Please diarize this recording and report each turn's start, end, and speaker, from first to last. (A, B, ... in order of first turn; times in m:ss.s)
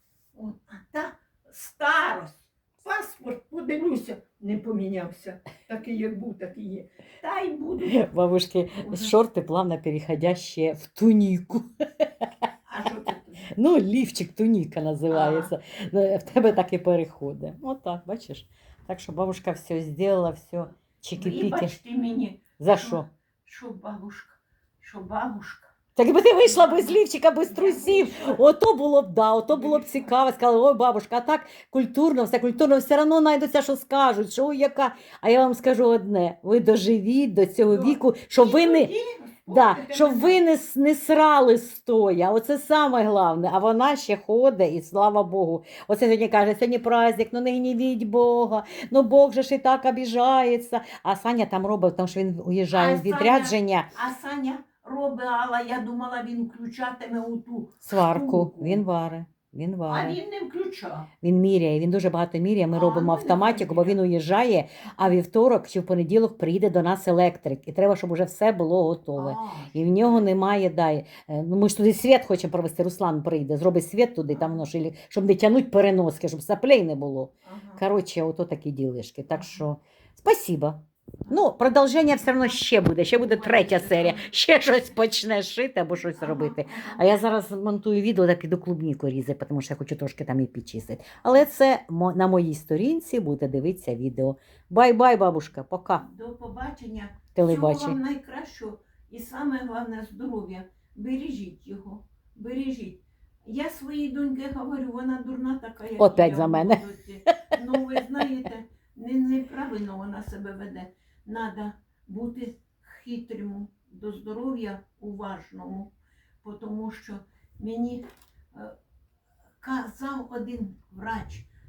0:00.3-0:08.1 A
0:07.9-0:12.3 B
0:08.8-0:09.2 A
0:12.7-0:13.5 A
0:13.6-0:21.7 B
0:15.1-0:15.5 A
0:21.2-0:25.8 A
0:22.6-0:23.1 B
0:26.0-0:38.9 B
0:26.4-0:28.5 A
0:29.5-0:30.2 A
0:37.7-0:40.4 A
0:39.5-0:53.9 B
0:52.7-0:58.8 A
0:57.8-1:00.2 B
0:59.9-1:01.1 A
1:01.2-1:36.0 B
1:02.7-1:04.0 A
1:09.2-1:10.3 A
1:14.3-1:14.6 A
1:17.4-1:17.8 A
1:19.4-1:19.6 A
1:22.4-1:24.4 A
1:26.1-1:27.1 A
1:36.0-1:58.7 A
1:37.4-1:38.0 B
1:46.0-1:47.4 B
1:59.6-2:01.5 A